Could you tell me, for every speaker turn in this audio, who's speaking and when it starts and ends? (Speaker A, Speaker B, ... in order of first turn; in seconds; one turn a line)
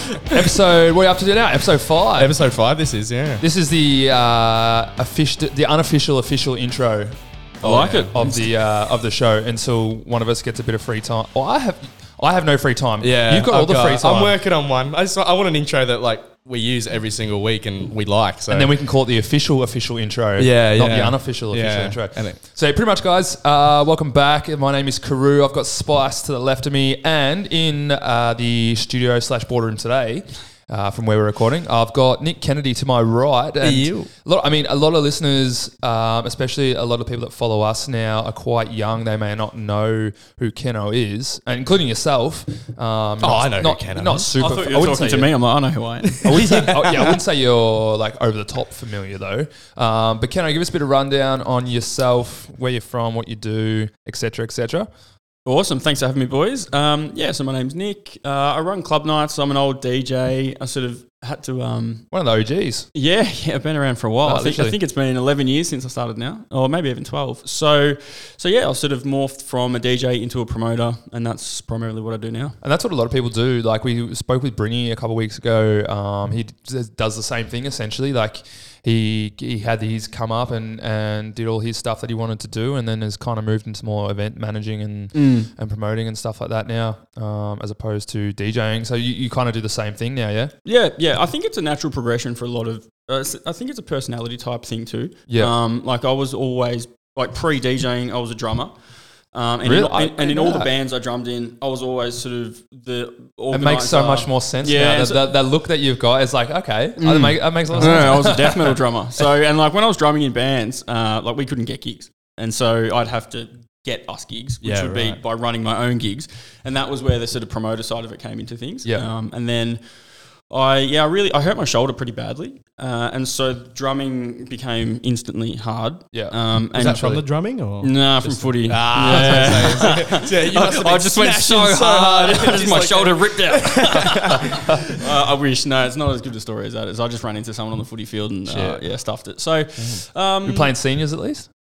Speaker A: 0.2-2.4
Speaker B: 2.2-3.4
Speaker A: 3.4-14.4
Speaker C: 7.6-8.4
Speaker B: 7.6-8.1
Speaker B: 13.0-18.7
Speaker A: 18.5-45.3
Speaker B: 20.4-22.4
Speaker B: 33.6-34.1
Speaker B: 43.2-44.3
Speaker C: 44.4-46.7
Speaker B: 46.2-47.2
Speaker A: 46.2-54.9
Speaker C: 55.5-62.0
Speaker A: 62.1-62.9
Speaker C: 62.9-72.6
Speaker A: 64.2-64.8
Speaker A: 72.6-90.5
Speaker C: 85.1-85.5
Speaker C: 90.6-98.7
Speaker A: 95.3-95.5
Speaker C: 99.3-105.3
Speaker A: 99.6-100.7
Speaker A: 103.5-108.8
Speaker C: 107.0-119.8
Speaker B: 107.8-108.0
Speaker B: 114.6-115.2
Speaker C: 120.5-127.2
Speaker B: 126.7-134.9
Speaker A: 126.9-127.2
Speaker C: 127.8-140.7
Speaker A: 129.1-129.8
Speaker B: 138.4-138.8
Speaker B: 139.8-140.0
Speaker A: 140.4-141.5